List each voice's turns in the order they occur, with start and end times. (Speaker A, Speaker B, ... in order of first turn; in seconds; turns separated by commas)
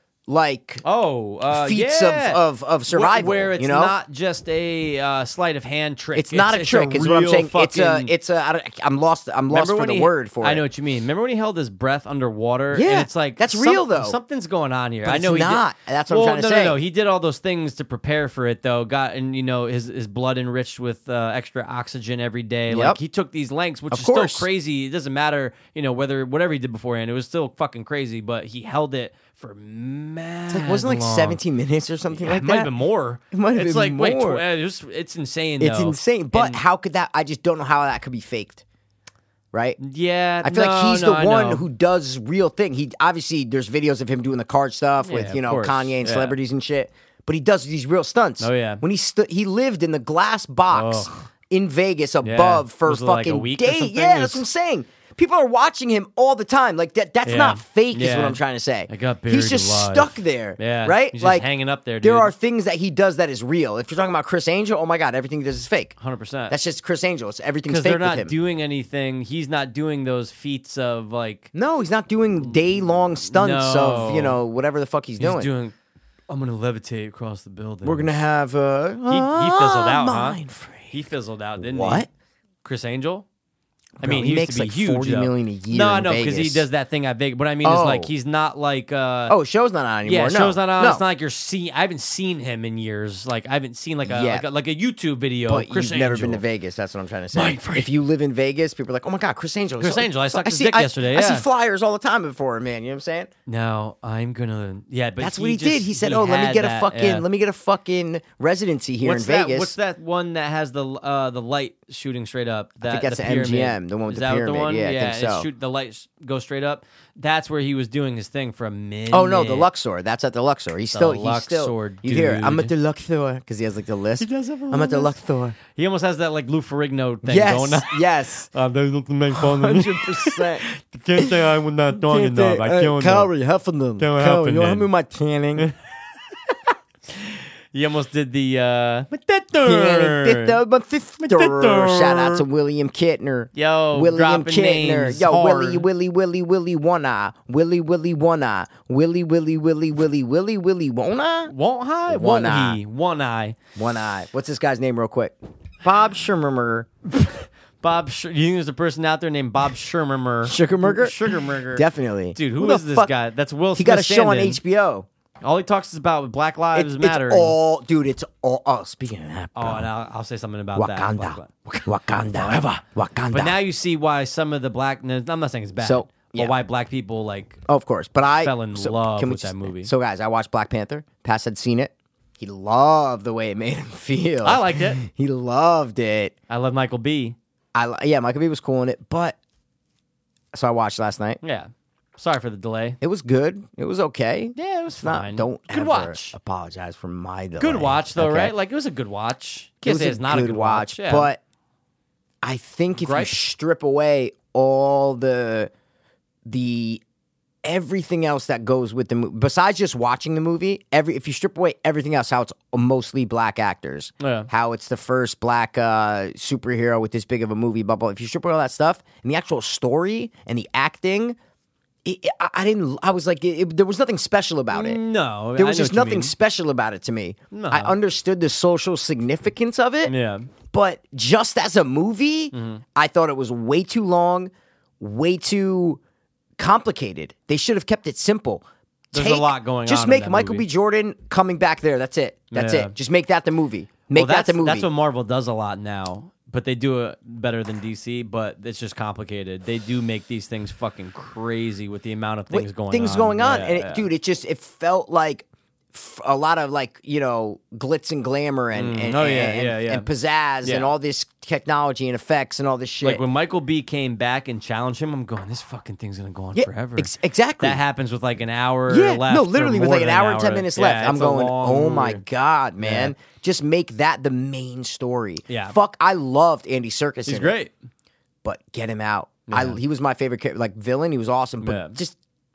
Speaker A: 0.3-0.8, Speaker B: 0.8-8.1, Speaker A: 1.5-4.0, Speaker A: 6.2-10.6, Speaker B: 9.5-31.4, Speaker A: 12.7-14.2, Speaker A: 15.1-16.8, Speaker A: 22.7-23.0, Speaker A: 23.9-24.5, Speaker A: 30.5-32.7, Speaker B: 32.1-36.6, Speaker A: 33.3-34.4, Speaker A: 35.6-38.6, Speaker A: 39.5-39.8, Speaker B: 39.8-41.6, Speaker A: 40.4-61.5, Speaker B: 45.0-46.4, Speaker B: 48.4-48.8, Speaker B: 50.7-51.2, Speaker B: 52.2-54.4, Speaker B: 57.2-62.3, Speaker A: 62.0-66.0, Speaker B: 66.0-66.6, Speaker A: 66.5-68.3, Speaker B: 67.7-71.5, Speaker A: 71.5-75.5, Speaker B: 73.2-74.4, Speaker B: 75.2-75.7, Speaker B: 76.3-78.2, Speaker A: 77.8-81.0, Speaker B: 79.1-80.4, Speaker B: 80.9-82.1, Speaker A: 81.6-82.1, Speaker B: 82.6-83.3, Speaker A: 84.0-86.7, Speaker B: 84.0-89.4, Speaker A: 87.6-88.1, Speaker A: 89.3-91.0, Speaker B: 90.0-96.4, Speaker A: 94.0-94.5, Speaker A: 95.5-103.3, Speaker B: 97.3-97.9, Speaker B: 99.8-101.5, Speaker B: 103.5-107.2, Speaker A: 105.2-109.7, Speaker B: 109.0-119.7, Speaker A: 112.8-115.5, Speaker A: 119.1-125.6, Speaker B: 120.9-122.7, Speaker B: 124.2-133.3, Speaker A: 127.2-128.5, Speaker A: 129.3-130.7, Speaker A: 131.2-131.4, Speaker A: 131.9-135.7, Speaker B: 134.0-134.9, Speaker B: 137.1-140.6, Speaker A: 139.6-151.5, Speaker B: 141.3-142.4, Speaker B: 143.5-145.9, Speaker B: 151.5-153.6, Speaker A: 152.1-152.8, Speaker A: 153.8-156.9, Speaker B: 157.2-164.6, Speaker A: 160.5-161.2, Speaker A: 161.7-163.1, Speaker A: 163.8-165.1, Speaker B: 165.4-167.6, Speaker A: 166.7-169.9, Speaker B: 169.6-171.7, Speaker A: 170.8-173.6, Speaker B: 172.4-172.7, Speaker B: 173.3-177.6, Speaker A: 175.8-176.6, Speaker A: 177.7-186.3, Speaker B: 178.4-179.9, Speaker B: 184.4-185.0, Speaker B: 186.5-187.4, Speaker A: 187.8-189.4, Speaker A: 190.5-191.4, Speaker B: 191.4-193.0, Speaker A: 193.0-198.5, Speaker B: 194.6-196.4, Speaker B: 197.6-201.3, Speaker A: 199.8-201.4, Speaker A: 202.4-205.7, Speaker B: 203.0-203.4, Speaker A: 206.5-207.0, Speaker A: 207.6-221.4, Speaker B: 214.2-214.5, Speaker A: 222.0-225.0, Speaker B: 224.7-226.3, Speaker A: 225.6-230.1, Speaker B: 227.5-228.0, Speaker B: 230.1-230.5, Speaker A: 230.7-236.0, Speaker B: 232.5-232.8, Speaker A: 236.6-244.9, Speaker B: 239.1-240.7, Speaker B: 242.5-242.9, Speaker B: 244.1-254.1, Speaker A: 252.5-263.2, Speaker B: 258.7-260.1, Speaker B: 260.6-260.9, Speaker B: 263.0-272.2, Speaker A: 266.6-267.8, Speaker A: 268.9-277.6, Speaker B: 272.8-273.1, Speaker B: 275.5-275.8, Speaker B: 277.2-277.7, Speaker A: 278.4-282.2, Speaker B: 279.5-279.8, Speaker B: 281.6-282.0